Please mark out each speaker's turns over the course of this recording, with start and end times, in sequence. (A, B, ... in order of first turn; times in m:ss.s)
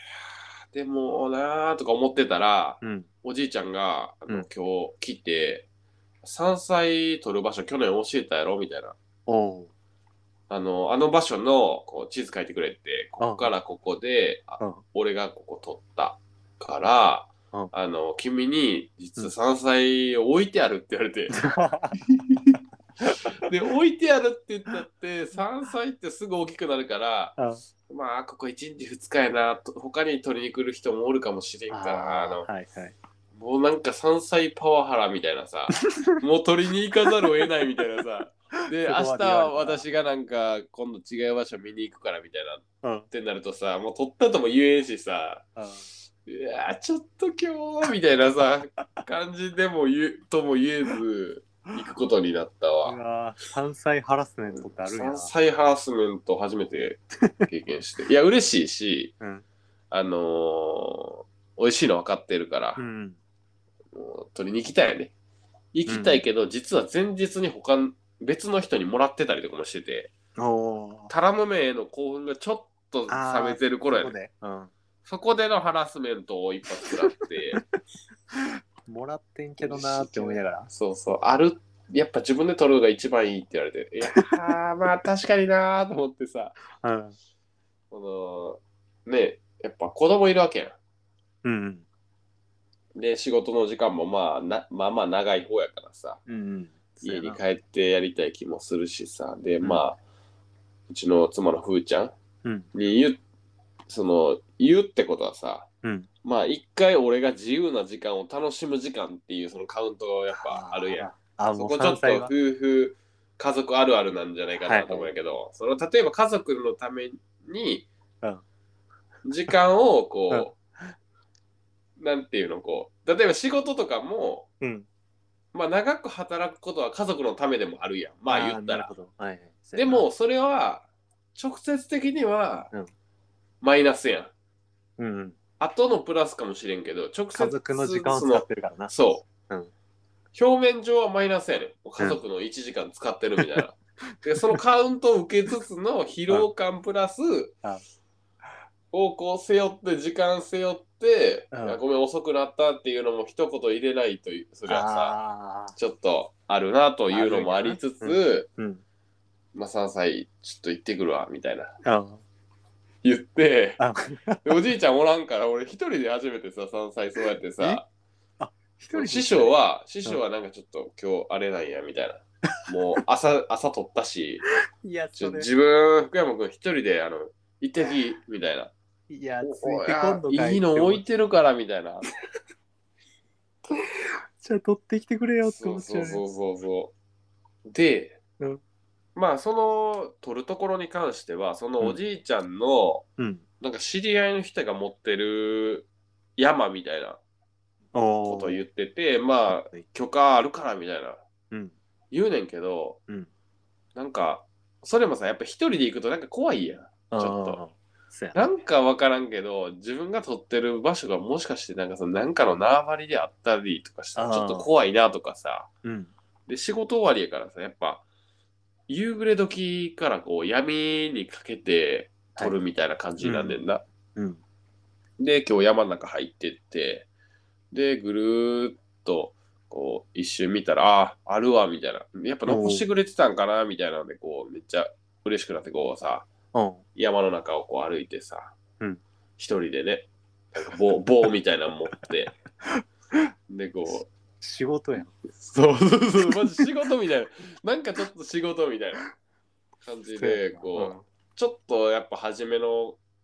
0:00.7-0:05.7 A
0:02.8-0:03.1 B
0:06.2-0:09.0 A
0:09.3-0:09.7 B
0:10.5-0:21.4 A
0:13.2-0:13.5 B
0:21.3-0:22.0 B
0:22.3-0:22.6 A
0:23.3-0:27.4 A
0:27.4-0:27.6 B
0:27.9-0:32.5 A
0:31.7-0:33.0 B
0:33.4-0:45.5 A
0:38.8-0:39.8 B
0:42.8-0:43.1 B
0:45.6-0:45.9 B
0:46.2-0:53.0 A
0:52.8-0:55.3 B
0:54.5-0:59.1 A
0:59.2-0:59.4 B
0:59.9-1:02.8 A
1:02.8-1:03.2 B
1:03.9-1:05.1 A
1:05.7-1:10.1 A
1:05.9-1:06.2 B
1:10.4-1:11.1 B
1:11.1-1:14.1 A
1:13.1-1:14.7 B
1:15.0-1:17.6 A
1:18.3-1:20.7 B
1:19.6-1:26.6 A
1:26.8-1:27.2 B
1:27.9-1:30.8 A
1:31.4-1:31.9 B
1:33.0-1:36.2 A
1:36.3-1:37.4 B
1:37.0-1:40.0 A
1:40.9-1:42.1 A
1:42.7-1:43.2 A
1:43.9-1:45.7 A
1:45.8-1:46.1 B
1:46.2-1:57.9 A
1:50.4-1:52.3 B
1:54.6-1:55.1 B
1:59.2-2:00.5 A
2:00.3-2:00.6 B
2:02.0-2:04.5 A
2:04.6-2:04.9 B
2:05.5-2:08.9 A
2:08.3-2:10.1 B
2:09.8-2:12.7 A
2:13.6-2:14.3 A
2:15.0-2:15.4 B
2:15.6-2:19.3 A
2:17.4-2:18.9 B
2:20.3-2:27.6 A
2:23.4-2:23.6 B
2:28.9-2:35.2 A
2:31.5-2:31.8 B
2:34.7-2:35.8 B
2:35.8-2:38.5 A
2:37.1-2:38.8 B
2:39.5-2:41.8 A
2:41.8-2:42.2 B
2:43.0-2:43.8 A
2:43.8-2:44.6 B
2:44.4-2:47.8 A
2:48.4-2:50.2 B
2:48.9-2:54.5 A
2:54.8-2:55.5 B
2:55.2-2:58.7 A
2:59.1-3:01.0 B
2:59.4-3:02.1 A
3:04.4-3:06.3 B
3:05.4-3:06.9 A
3:07.7-3:08.2 A
3:09.2-3:13.1 A
3:13.2-3:13.4 B
3:13.6-3:17.2 A
3:17.9-3:18.6 B
3:18.3-3:21.2 A
3:22.1-3:23.0 A
3:24.0-3:27.6 A
3:27.1-3:28.5 B
3:28.3-3:35.7 A
3:34.2-3:34.7 B
3:35.8-3:36.1 B
3:36.5-3:38.0 A
3:38.9-3:43.8 A
3:43.2-3:43.6 B
3:44.2-3:44.4 B
3:45.2-3:47.1 A
3:47.7-3:56.3 A
3:52.5-3:52.9 B
3:56.5-3:56.8 B
3:57.0-3:58.6 A
3:59.4-4:02.4 A
4:03.5-4:04.1 A
4:04.4-4:05.2 B
4:05.4-4:09.0 A
4:09.8-4:13.0 A
4:10.2-4:11.0 B